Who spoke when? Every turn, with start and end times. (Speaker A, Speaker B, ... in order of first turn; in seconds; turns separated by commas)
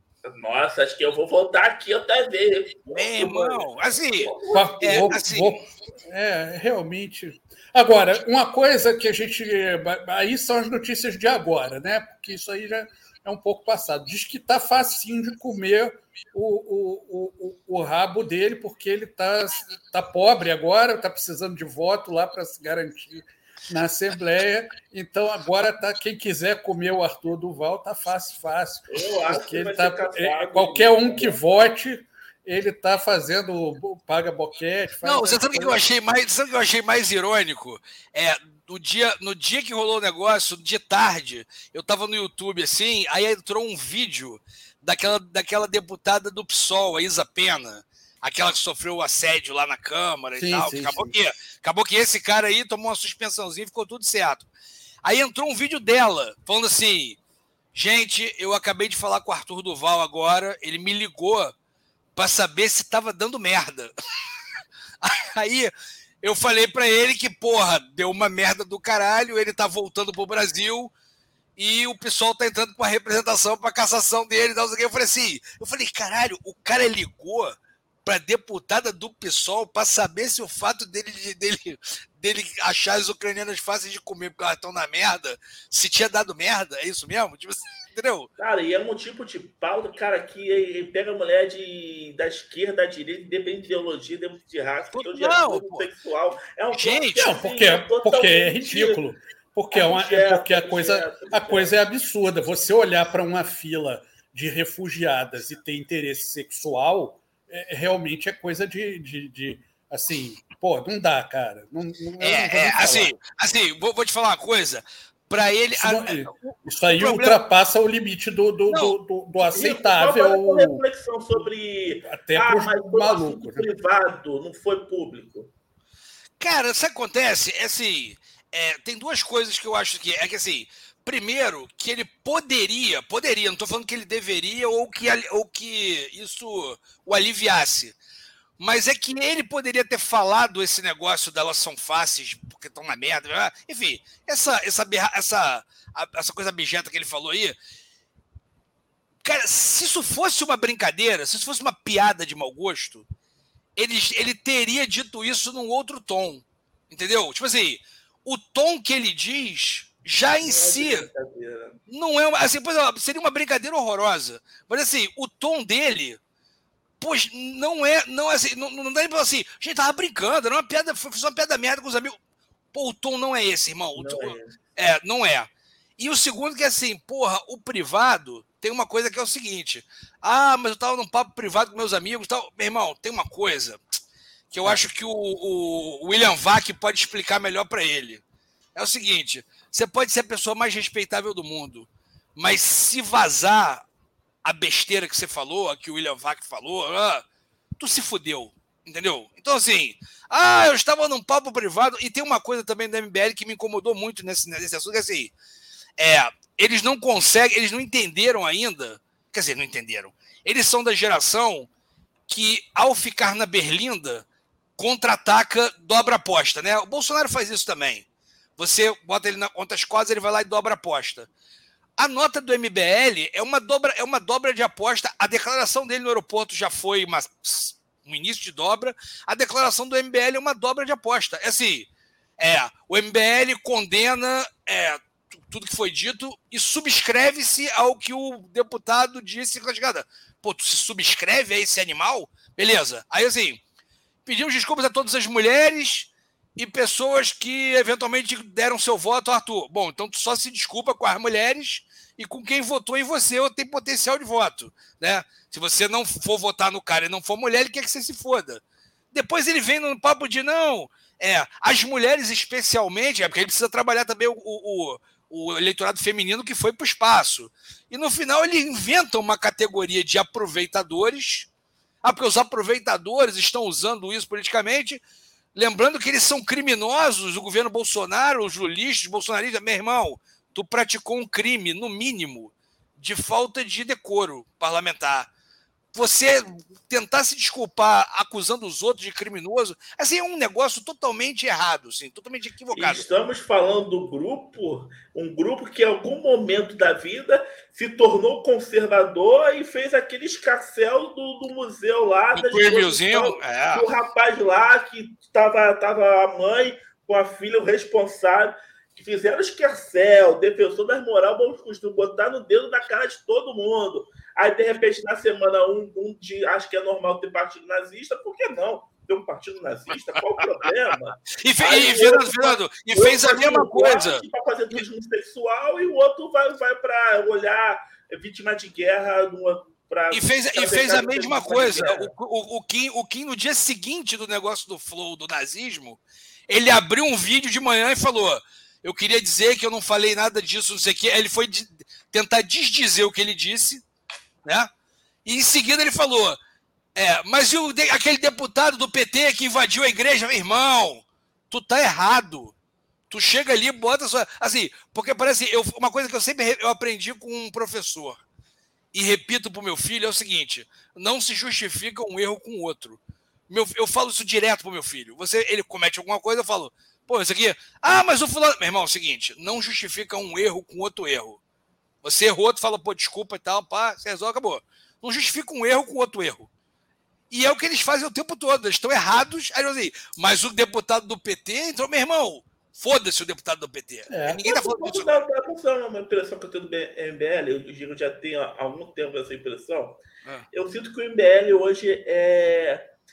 Speaker A: 0.2-5.2, Speaker B: 2.9-5.6, Speaker C: 4.5-35.8, Speaker A: 28.9-31.6, Speaker B: 35.0-54.5, Speaker C: 50.4-51.1, Speaker B: 55.0-57.2, Speaker B: 57.7-61.5, Speaker B: 62.1-63.9, Speaker B: 65.0-65.7, Speaker B: 66.2-70.9, Speaker B: 71.6-88.3, Speaker A: 88.4-99.0, Speaker B: 94.9-95.8, Speaker B: 96.7-97.3, Speaker C: 97.2-113.1, Speaker A: 99.7-101.8, Speaker B: 112.2-117.4, Speaker C: 115.8-120.8, Speaker B: 118.7-119.0, Speaker A: 119.5-125.5, Speaker C: 122.0-123.7, Speaker B: 126.4-137.9, Speaker B: 138.6-147.6, Speaker B: 149.2-153.0, Speaker B: 153.8-161.1, Speaker A: 160.4-161.8, Speaker B: 161.9-166.2, Speaker B: 167.0-172.2, Speaker B: 172.7-183.8, Speaker A: 173.9-174.5, Speaker B: 184.5-188.2, Speaker B: 188.7-193.8, Speaker B: 194.4-197.2, Speaker B: 197.8-205.3, Speaker B: 206.0-211.7, Speaker B: 212.3-214.2, Speaker B: 214.8-218.0, Speaker B: 218.6-221.3, Speaker B: 222.0-243.6, Speaker B: 244.2-271.5, Speaker B: 272.0-275.0, Speaker B: 275.5-285.3, Speaker B: 285.9-293.1, Speaker A: 292.7-332.1, Speaker B: 302.3-303.9, Speaker B: 321.4-324.2, Speaker B: 330.1-343.8, Speaker B: 345.2-346.4, Speaker B: 346.9-352.5, Speaker B: 353.1-358.2, Speaker B: 358.9-371.4, Speaker B: 372.0-376.5, Speaker B: 377.3-385.2, Speaker C: 384.1-384.4, Speaker A: 384.4-390.0, Speaker A: 390.5-392.8